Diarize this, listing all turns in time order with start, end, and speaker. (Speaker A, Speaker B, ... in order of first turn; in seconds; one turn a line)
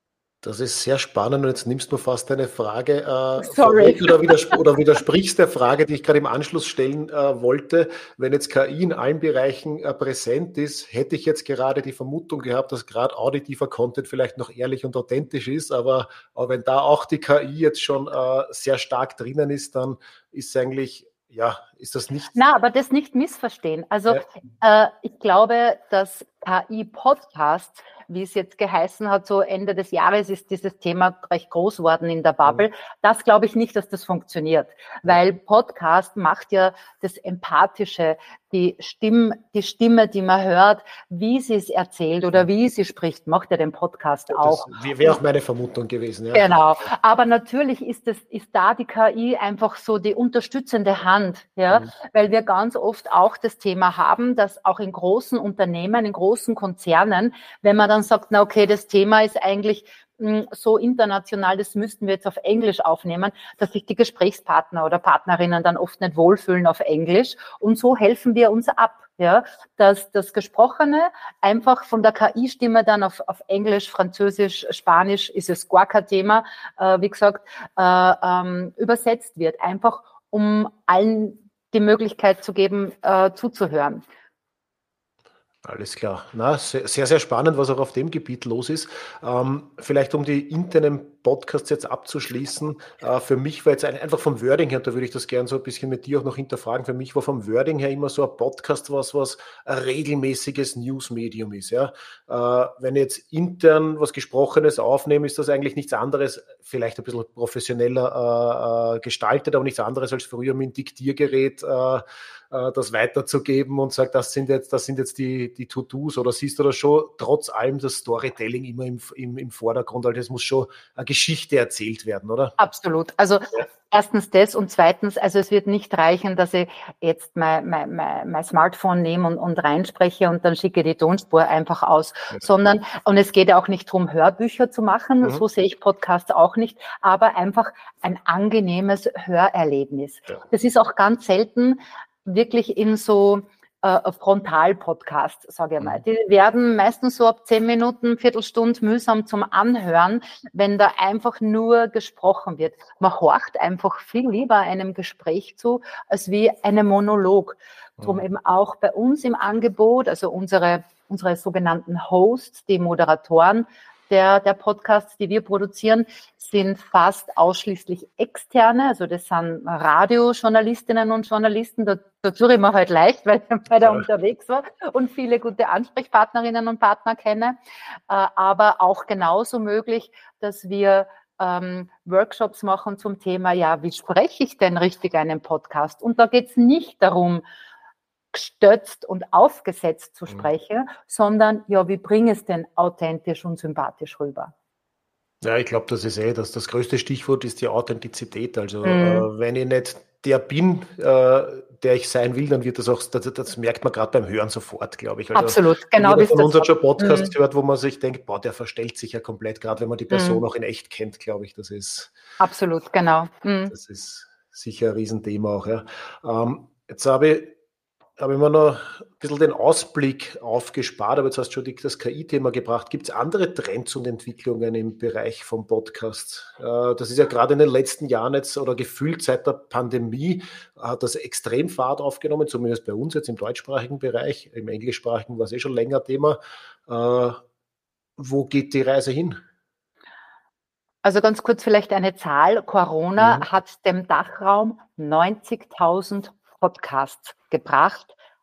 Speaker A: 0.4-22.4
Speaker B: 3.4-4.5
Speaker B: 22.3-45.2
Speaker A: 44.3-46.5
Speaker B: 46.3-84.0
Speaker A: 85.6-122.6
Speaker B: 122.6-177.6
Speaker A: 158.0-158.2
Speaker B: 178.1-187.4
Speaker B: 188.3-194.5
Speaker A: 195.4-212.1
Speaker B: 198.8-199.3
Speaker B: 205.3-207.3
Speaker B: 210.1-210.4
Speaker B: 212.4-213.7
Speaker A: 213.7-217.6
Speaker A: 218.2-237.4
Speaker A: 238.2-239.4
Speaker B: 241.0-248.1
Speaker A: 243.2-243.4